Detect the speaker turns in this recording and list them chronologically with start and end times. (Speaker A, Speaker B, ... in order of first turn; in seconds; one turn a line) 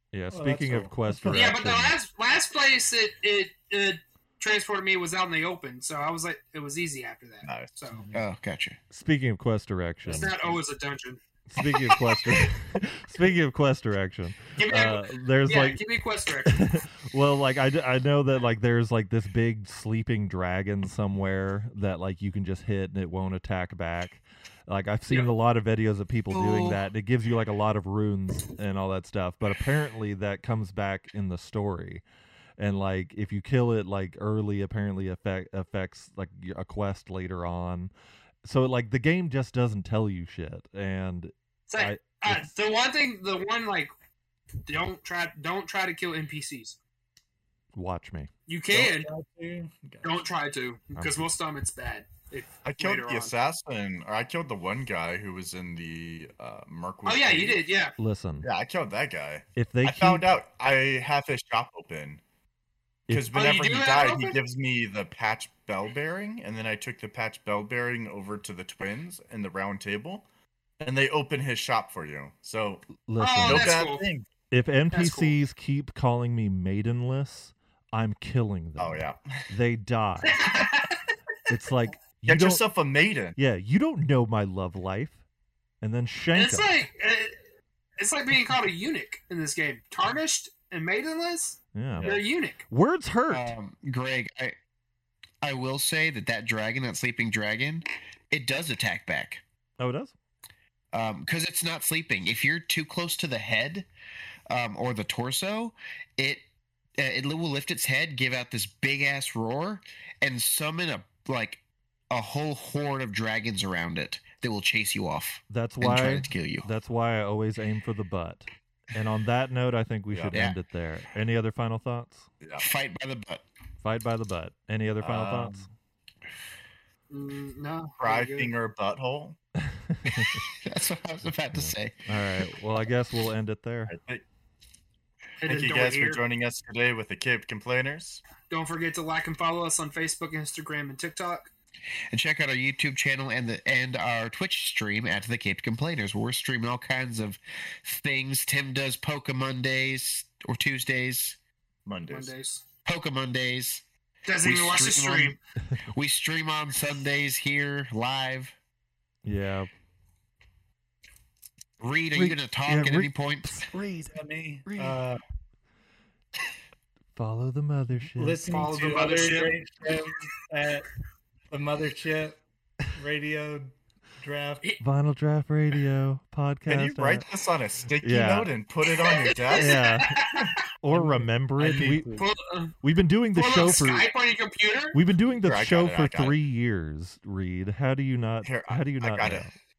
Speaker A: 0.1-2.0
Speaker B: 0.3-1.4
Speaker C: 1.3-8.0
Speaker D: 7.4-7.7
Speaker B: 7.9-8.2
Speaker E: 8.1-8.8
Speaker A: 8.9-10.3
Speaker C: 10.1-12.2
Speaker A: 11.5-15.8
Speaker C: 14.6-16.8
Speaker A: 16.4-32.0
Speaker E: 26.3-26.8
Speaker A: 32.6-37.9
Speaker A: 38.4-42.5
Speaker C: 41.7-43.9
Speaker C: 44.6-46.8
Speaker A: 47.7-48.3
Speaker C: 48.5-49.1
Speaker B: 48.7-50.2
Speaker C: 50.0-53.3
Speaker A: 51.0-51.3
Speaker D: 52.6-57.6
Speaker C: 57.1-58.0
Speaker A: 58.0-58.5
Speaker D: 58.4-62.2
Speaker A: 59.6-60.3
Speaker D: 63.1-70.2
Speaker C: 63.3-64.4
Speaker D: 70.8-72.9
Speaker A: 73.0-73.7
Speaker C: 73.2-74.1
Speaker D: 73.4-74.3
Speaker A: 74.5-80.4
Speaker C: 74.9-75.4
Speaker D: 78.8-79.5
Speaker C: 80.2-81.1
Speaker A: 81.5-82.6
Speaker D: 82.3-83.4
Speaker A: 83.4-85.2
Speaker A: 85.8-86.8
Speaker C: 86.3-87.4
Speaker C: 88.0-92.6
Speaker A: 91.8-92.1
Speaker D: 92.0-92.2
Speaker A: 92.7-93.5
Speaker E: 93.3-94.6
Speaker E: 95.4-99.4
Speaker A: 99.8-100.1
Speaker E: 100.9-103.9
Speaker E: 104.5-106.4
Speaker E: 107.0-116.7
Speaker A: 115.5-122.3
Speaker D: 122.4-122.7
Speaker E: 122.6-123.4
Speaker A: 123.8-125.7
Speaker D: 125.0-125.3
Speaker E: 125.2-125.5
Speaker C: 127.1-128.5
Speaker D: 128.0-129.4
Speaker A: 129.6-130.4
Speaker E: 130.2-132.1
Speaker A: 131.5-133.9
Speaker D: 133.9-134.2
Speaker C: 135.4-136.2
Speaker D: 135.5-138.2
Speaker C: 138.5-141.5
Speaker E: 142.1-151.4
Speaker D: 151.9-152.3
Speaker C: 152.1-152.6
Speaker E: 152.8-153.8
Speaker C: 154.3-155.4
Speaker E: 154.4-155.4
Speaker E: 155.9-158.6
Speaker A: 159.2-159.7
Speaker E: 161.8-163.7
Speaker A: 162.1-165.0
Speaker B: 164.1-165.2
Speaker A: 167.2-168.4
Speaker B: 168.1-170.9
Speaker C: 168.5-169.6
Speaker B: 171.5-174.6
Speaker A: 174.8-177.2
Speaker D: 176.7-180.5
Speaker A: 178.0-178.5
Speaker C: 179.0-180.6
Speaker A: 179.5-180.3
Speaker A: 180.8-182.2
Speaker B: 180.9-182.3
Speaker C: 182.2-182.7
Speaker A: 182.8-184.1
Speaker C: 183.3-185.0
Speaker A: 184.9-189.5
Speaker D: 185.4-186.3
Speaker D: 188.4-189.5